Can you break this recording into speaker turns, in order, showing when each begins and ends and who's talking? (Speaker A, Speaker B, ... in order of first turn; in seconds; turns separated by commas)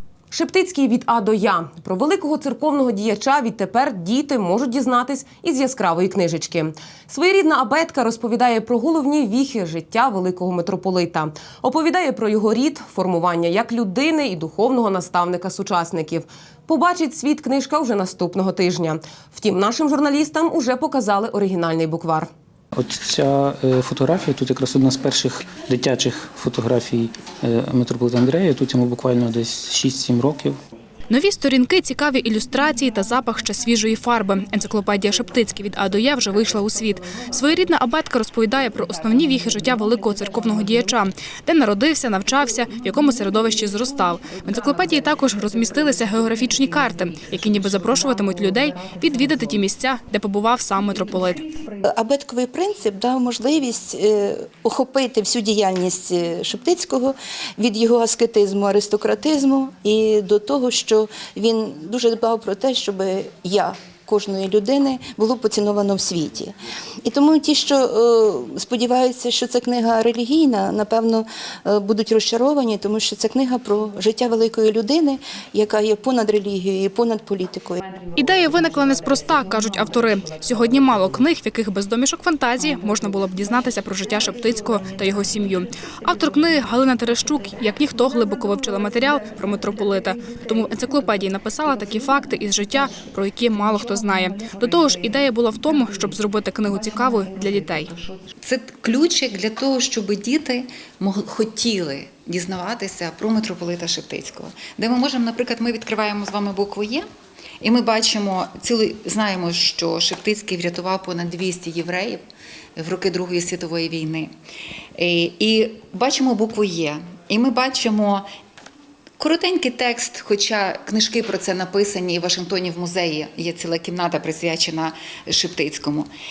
Speaker A: 0.3-22.3, Speaker B: 22.7-30.6, Speaker C: 31.1-51.4, Speaker D: 51.8-77.8, Speaker C: 78.1-98.0, Speaker E: 98.4-107.1, Speaker E: 107.6-112.2, Speaker E: 112.8-114.3, Speaker E: 115.0-118.3, Speaker E: 119.2-126.1